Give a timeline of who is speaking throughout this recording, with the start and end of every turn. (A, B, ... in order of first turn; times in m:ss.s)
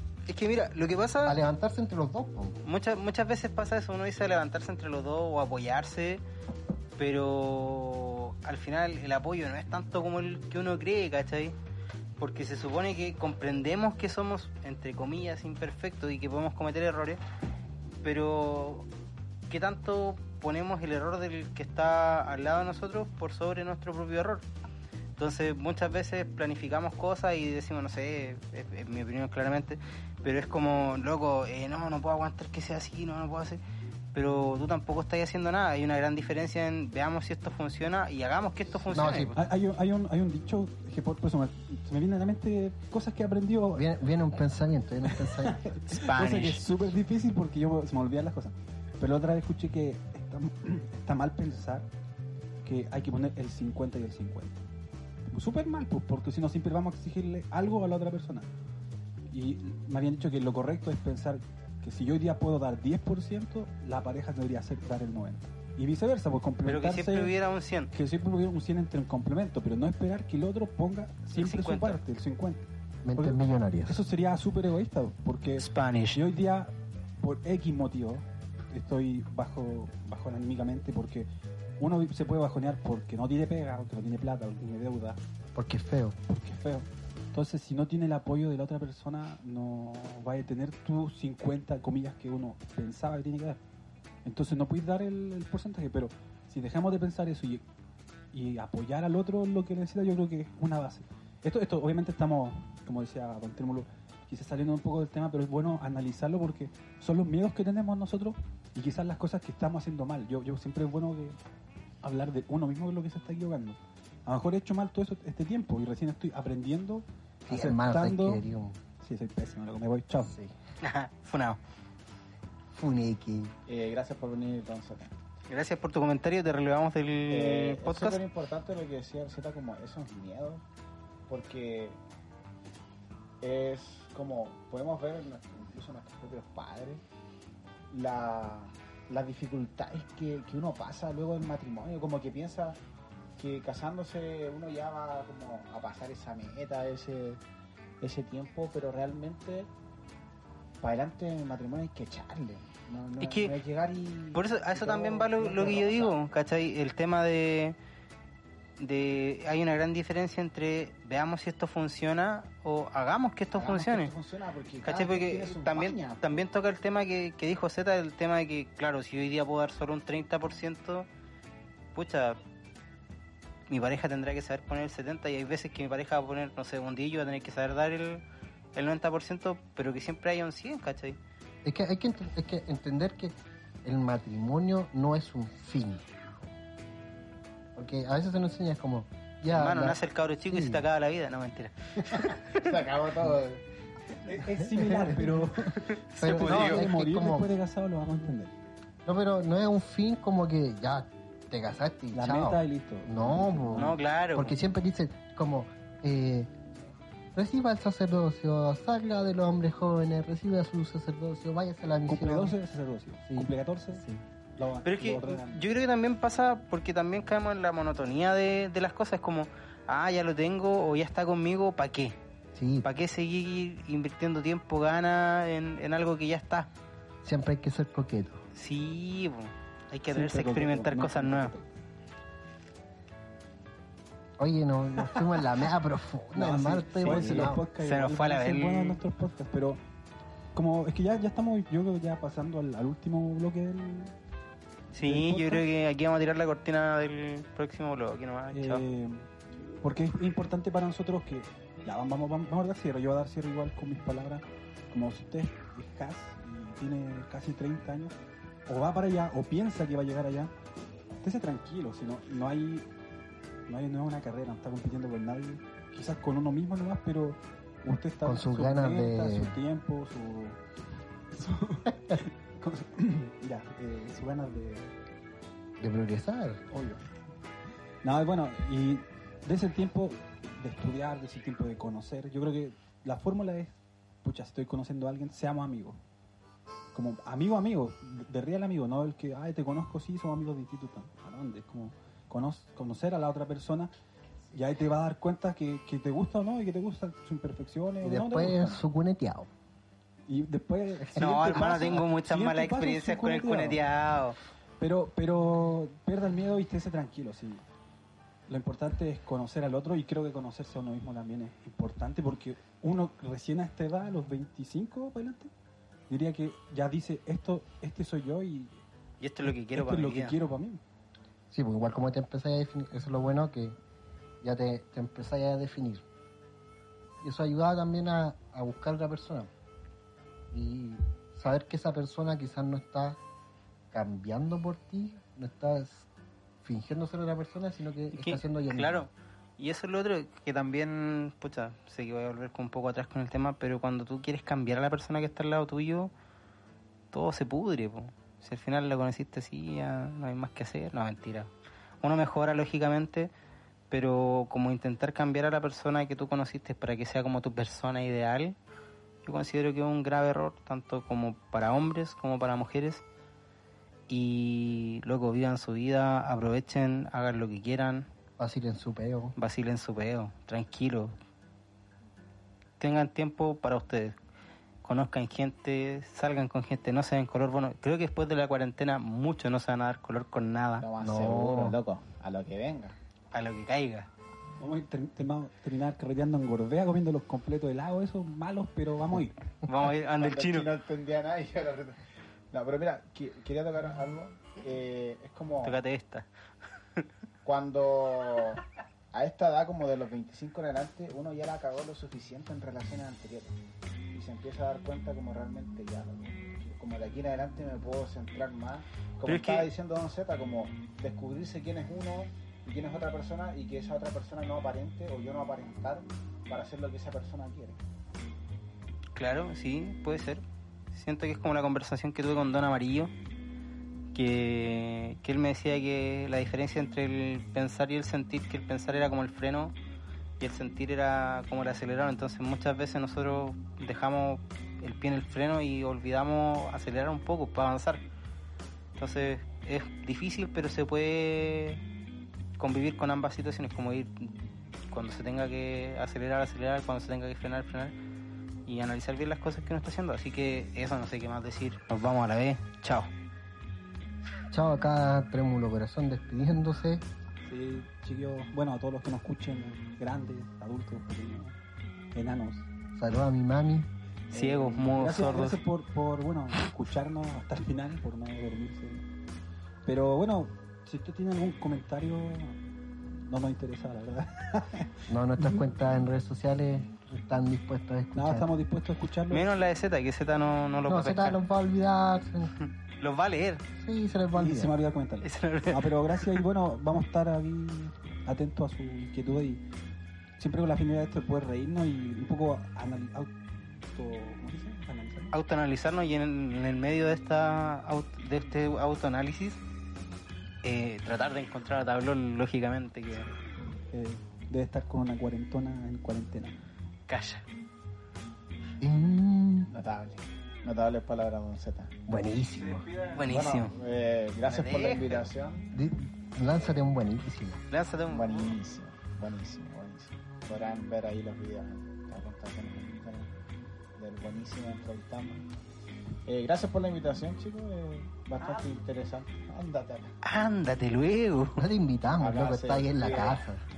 0:00.3-0:01.4 A
0:01.2-0:02.6 B
0:02.6-0:06.2 A
0:07.0-0:11.6 A
0:12.2-0:17.2 A
0:18.0-0:18.9 A
0:19.5-0:24.4 A
0:25.2-0:33.6 A
0:34.1-0:39.4 A
0:38.9-0:39.4 B
0:39.3-0:43.9 C
0:43.8-0:45.7 B
0:45.0-0:51.9 C
0:45.9-0:46.6 A
0:52.6-0:54.6 C
0:55.3-0:58.5 C
0:59.3-1:07.4 C
1:06.6-1:07.9 A
1:07.9-1:12.6 C
1:11.3-1:12.0 A
1:13.0-1:14.0 B
1:13.2-1:21.3 C
1:15.6-1:16.2 A
1:21.8-1:25.2 C
1:25.5-1:26.2 B
1:26.3-1:33.6 C
1:34.2-1:37.6 C
1:38.3-1:51.4 C
1:52.0-1:58.4 C
1:57.5-1:58.8 B
1:59.0-2:00.3 C
2:00.8-2:01.6 A
2:02.7-2:03.5 B
2:03.7-2:05.1 D
2:05.5-2:08.2 A
2:07.3-2:10.6 D
2:11.3-2:12.0 D
2:13.4-2:17.0 D
2:17.9-2:22.8 D
2:23.4-2:27.4 D
2:28.0-2:29.7 D
2:30.8-2:36.2 D
2:33.2-2:33.5 A
2:34.3-2:37.8 A
2:38.8-2:44.1 A
2:43.5-2:46.4 D
2:44.8-2:51.1 A
2:51.9-2:52.4 A
2:53.7-3:01.2 A
3:01.6-3:06.1 B
3:07.7-3:10.0 B
3:09.5-3:12.7 A
3:10.5-3:10.8 B
3:12.1-3:13.6 D
3:14.3-3:18.5 C
3:14.8-3:15.4 B
3:15.7-3:16.8 A
3:16.2-3:17.5 B
3:19.0-3:26.5 B
3:22.1-3:24.0 C
3:23.8-3:24.5 A
3:27.3-3:32.6 B
3:32.1-3:34.0 C
3:33.3-3:34.2 B
3:34.6-3:35.6 C
3:34.8-3:42.2 A
3:42.5-3:42.9 B
3:42.8-3:46.7 A
3:47.2-3:48.4 B
3:48.5-3:51.5 A
3:50.1-3:51.7 C
3:54.4-3:57.6 B
3:55.1-3:55.5 C
3:56.3-3:59.8 C
3:57.0-3:59.0 A
4:00.5-4:04.1 C
4:04.9-4:08.8 A
4:05.0-4:05.6 C
4:08.5-4:09.3 C
4:09.8-4:18.1 C
4:18.6-4:20.5 C
4:21.2-4:22.9 C
4:23.7-4:30.6 C
4:28.2-4:29.5 B
4:31.3-4:35.0 C
4:35.8-4:36.6 B
4:36.7-4:37.1 C
4:38.0-4:46.0 C
4:46.9-4:53.9 C
4:54.5-4:58.8 C
4:58.0-4:59.5 B
5:00.3-5:03.8 C
5:01.2-5:04.4 A
5:04.8-5:07.6 C
5:08.5-5:15.5 C
5:16.1-5:18.8 C
5:19.2-5:20.4 A
5:19.5-5:20.8 C
5:21.5-5:23.8 B
5:24.4-5:26.0 B
5:27.2-5:29.5 B
5:30.5-5:33.2 B
5:33.9-5:36.1 B
5:36.6-5:39.1 B
5:38.1-5:46.1 A
5:47.1-5:53.3 A
5:53.9-5:58.6 A
5:59.2-6:03.0 A
6:04.1-6:08.1 A
6:08.4-6:09.3 B
6:09.4-6:11.1 A
6:12.8-6:14.2 A
6:14.8-6:20.9 A
6:20.8-6:23.0 D
6:21.0-6:21.8 B
6:23.3-6:24.1 A
6:24.6-6:29.4 C
6:29.6-6:30.7 A
6:30.2-6:32.0 D
6:32.5-6:35.8 D
6:35.6-6:36.3 A
6:37.4-6:43.6 D
6:44.1-6:57.8 D
6:49.2-6:49.7 A
6:59.2-7:03.1 A
7:04.1-7:09.7 A
7:10.4-7:18.0 A
7:19.0-7:21.8 A
7:22.6-7:27.9 A
7:28.6-7:33.1 A
7:34.5-7:37.0 B
7:37.4-7:41.6 C
7:42.1-7:42.6 C
7:43.0-7:43.9 B
7:44.3-7:45.6 A
7:44.3-7:49.0 C
7:49.8-7:52.6 C
7:53.3-7:55.6 C
7:55.1-7:58.5 B
7:58.1-7:59.5 C
7:59.3-8:01.4 A
8:00.9-8:02.5 B
8:02.6-8:03.6 A
8:03.8-8:04.7 B
8:04.3-8:09.6 C
8:05.2-8:05.9 A
8:10.4-8:13.3 C
8:13.9-8:15.3 C
8:15.3-8:19.6 A
8:20.6-8:23.3 A
8:23.9-8:26.6 C
8:27.1-8:27.4 A
8:28.8-8:29.7 B
8:29.7-8:32.0 D
8:32.1-8:32.9 B
8:32.6-8:33.3 C
8:33.1-8:33.7 A
8:33.3-8:35.7 D
8:34.4-8:35.3 A
8:35.7-8:37.6 B
8:37.7-8:38.6 A
8:38.1-8:43.3 D
8:44.0-8:45.4 D
8:46.2-8:50.1 D
8:50.2-8:51.6 A
8:51.6-8:53.6 B
8:52.2-8:53.4 D